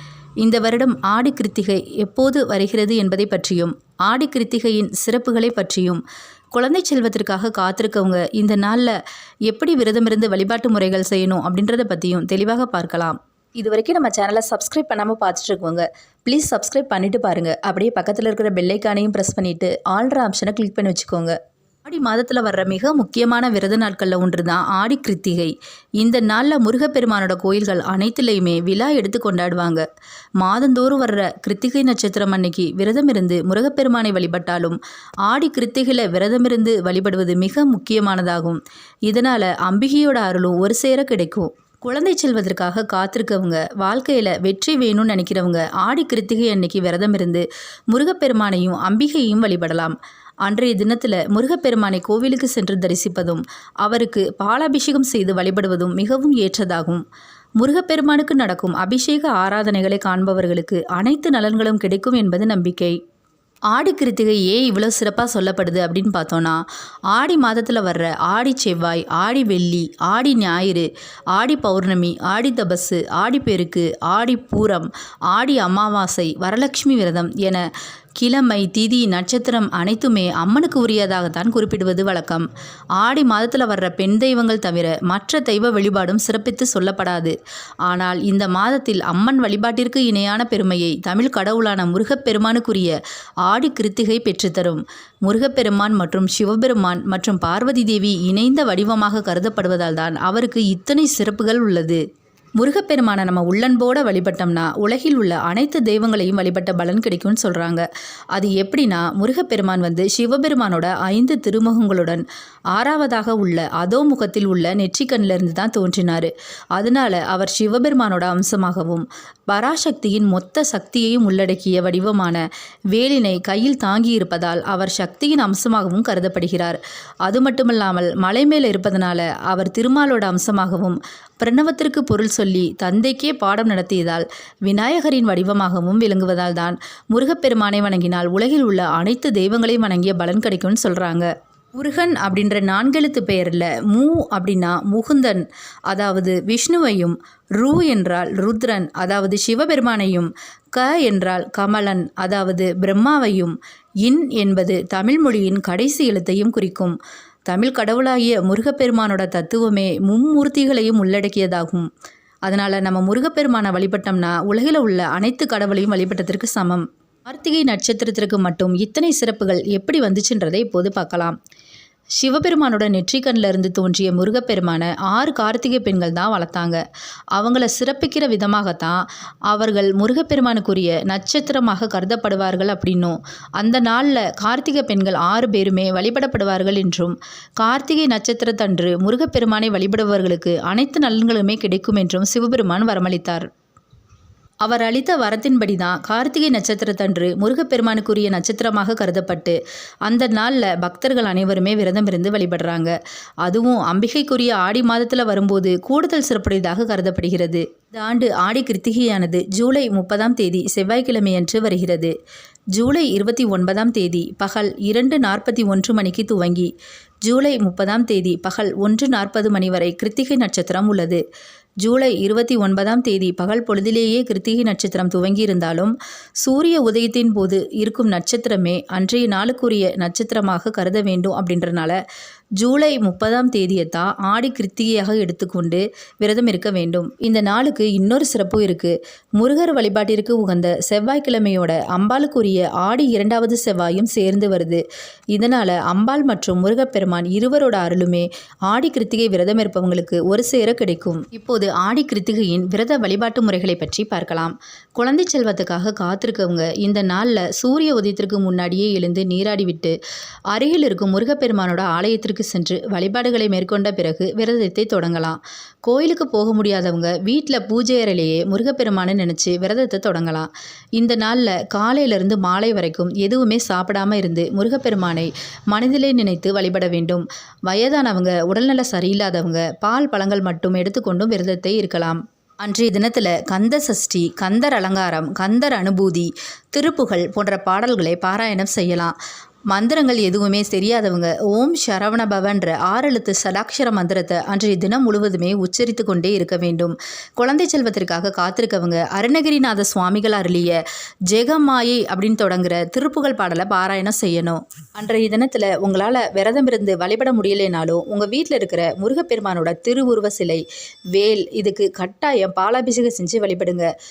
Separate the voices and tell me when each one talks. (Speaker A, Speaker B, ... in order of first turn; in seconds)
Speaker A: 0.4-6.0, 6.5-9.0, 9.5-29.9, 30.4-57.0, 57.6-63.0, 63.7-77.7, 78.2-87.3, 87.9-92.9, 93.5-102.0, 102.6-122.4, 122.9-161.9, 162.5-171.4, 172.2-176.8, 177.4-193.5, 194.6-212.1, 212.7-216.7, 217.2-221.2, 221.8-232.0, 232.6-244.8, 245.3-260.0, 260.5-289.2, 289.7-310.6, 311.1-313.9